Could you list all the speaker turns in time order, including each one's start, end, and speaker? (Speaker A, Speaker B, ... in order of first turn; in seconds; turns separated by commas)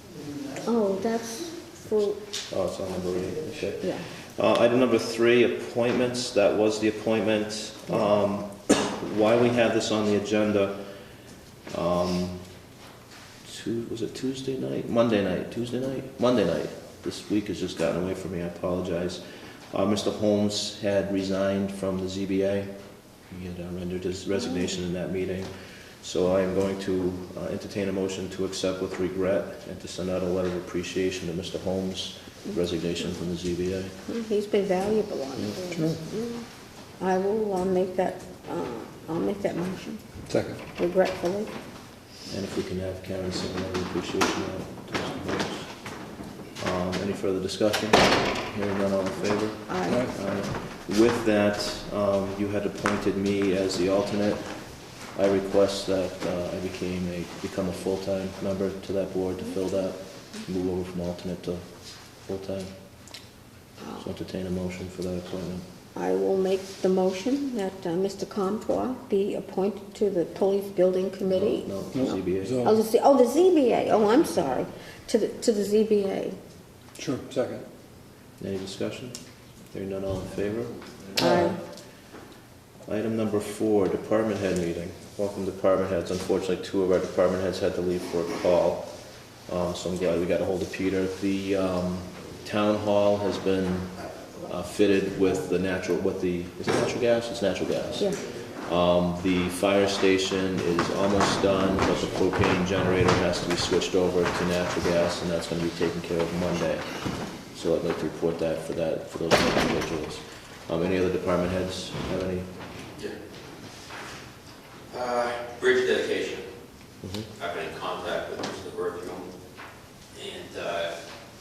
Speaker A: 0.6-2.2, Speaker B: 2.5-10.8, Speaker B: 11.7-12.5, Speaker B: 13.4-22.8, Speaker B: 23.3-34.0, Speaker A: 34.1-36.5, Speaker C: 35.6-36.0, Speaker A: 37.0-40.0, Speaker C: 40.3-40.6, Speaker A: 40.7-41.5, Speaker B: 42.3-45.8, Speaker B: 46.6-54.6, Speaker A: 49.7-50.0, Speaker C: 49.9-50.1, Speaker B: 55.1-61.7, Speaker B: 62.2-62.7, Speaker B: 64.0-65.7, Speaker A: 66.0-76.4, Speaker B: 71.3-72.6, Speaker C: 71.9-72.8, Speaker C: 77.0-77.7, Speaker B: 78.4-79.2, Speaker B: 79.7-81.7, Speaker A: 81.2-81.6, Speaker B: 82.9-88.9, Speaker B: 89.5-106.9, Speaker B: 107.4-112.5, Speaker D: 114.9-116.5, Speaker B: 117.0-117.3, Speaker D: 117.4-119.3, Speaker D: 120.1-121.0